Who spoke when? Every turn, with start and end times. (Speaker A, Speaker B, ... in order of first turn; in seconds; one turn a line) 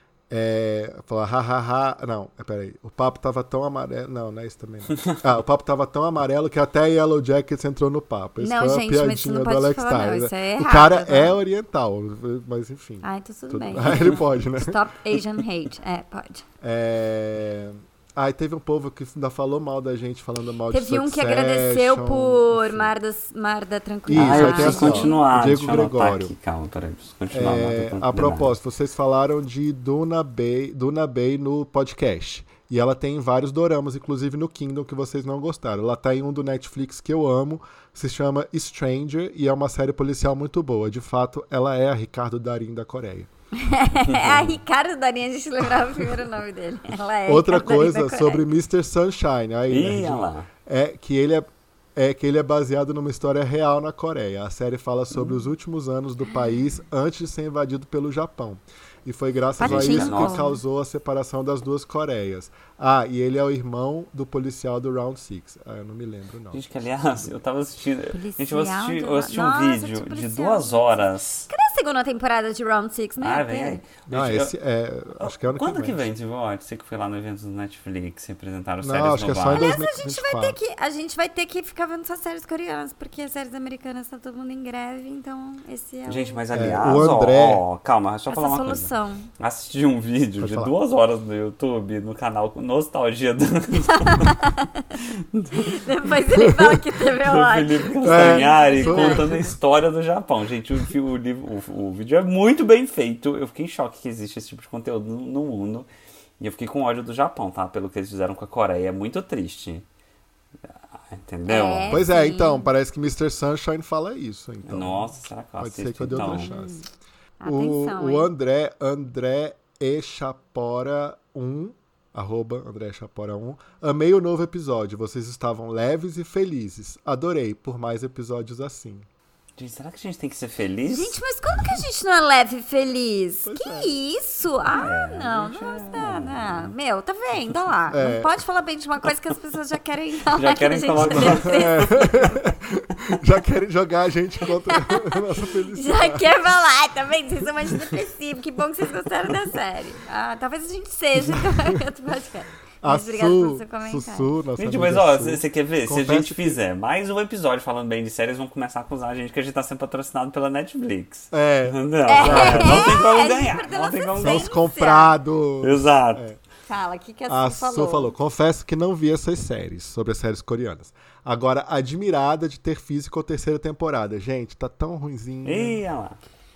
Speaker A: 0.3-14.8
Speaker B: 8.4-11.4
Speaker B: 13.0-16.4
Speaker A: 16.6-22.9
Speaker B: 20.7-25.2
Speaker A: 24.1-26.3
Speaker C: 24.1-28.5
Speaker A: 27.3-43.3
Speaker B: 43.5-48.5
Speaker C: 44.1-44.4
Speaker A: 47.3-66.6
Speaker C: 49.7-50.5
Speaker B: 59.6-60.6
Speaker C: 59.6-60.5
Speaker C: 66.5-71.5
Speaker B: 68.1-73.8
Speaker C: 73.2-74.5
Speaker A: 74.1-76.1
Speaker C: 75.2-79.7
Speaker A: 78.8-80.6
Speaker B: 79.5-86.4
Speaker C: 86.1-94.4
Speaker A: 86.5-87.6
Speaker B: 88.3-89.3
Speaker A: 90.4-90.7
Speaker B: 93.8-94.9
Speaker C: 95.0-95.9
Speaker B: 95.5-99.3
Speaker C: 97.1-105.9
Speaker A: 98.0-99.5
Speaker C: 106.4-109.8
Speaker C: 111.1-112.0
Speaker B: 111.5-112.7
Speaker A: 111.9-116.8
Speaker C: 114.7-116.5
Speaker B: 116.1-116.8
Speaker B: 117.4-118.3
Speaker A: 117.5-129.1
Speaker C: 129.6-131.2
Speaker B: 130.9-142.5
Speaker A: 133.4-133.9
Speaker C: 134.7-136.7
Speaker A: 137.9-138.3
Speaker C: 140.3-142.3
Speaker A: 141.0-146.3
Speaker B: 144.7-145.2
Speaker B: 145.7-154.3
Speaker A: 152.8-156.6
Speaker C: 154.6-164.6
Speaker A: 161.3-163.1
Speaker B: 162.1-165.1
Speaker A: 164.2-166.4
Speaker C: 165.6-166.2
Speaker B: 166.7-168.1
Speaker A: 167.3-175.8
Speaker C: 175.4-176.2